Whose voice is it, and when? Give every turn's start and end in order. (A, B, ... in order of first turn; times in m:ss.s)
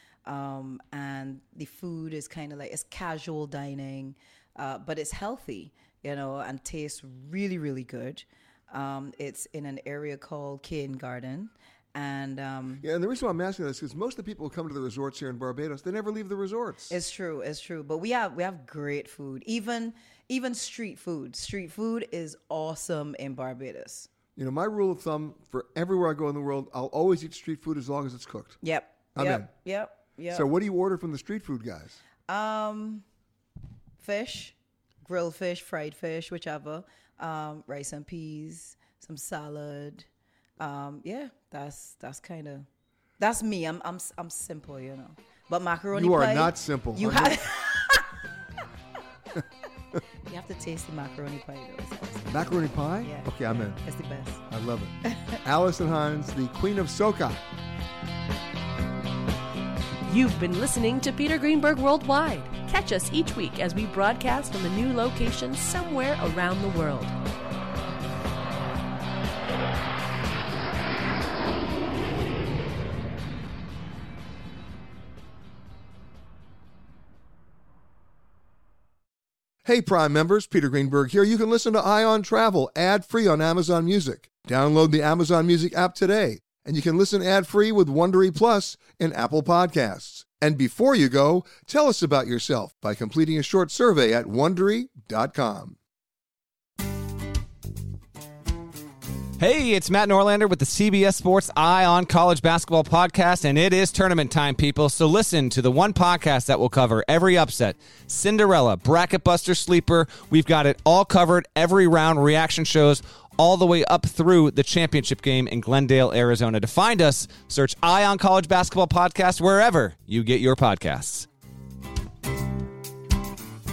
0:00.2-0:12.8 A
0:12.8-0:16.9 B
0:16.9-0:24.1 A
0:24.4-0:28.6 B
0:28.6-0:30.5 A
0:29.1-0:29.5 B
0:30.3-0:32.0 B
0:32.3-0:33.0 A
0:34.0-0:40.1 A
0:40.6-0:42.7 A
0:43.2-0:48.1 A
0:45.9-0:47.4 B
0:50.3-0:54.4 A
0:52.3-0:53.8 B
0:54.5-0:57.4 B
0:55.0-0:55.4 A
1:00.0-1:07.2 C
1:19.6-1:35.8 B
1:39.4-2:01.3 D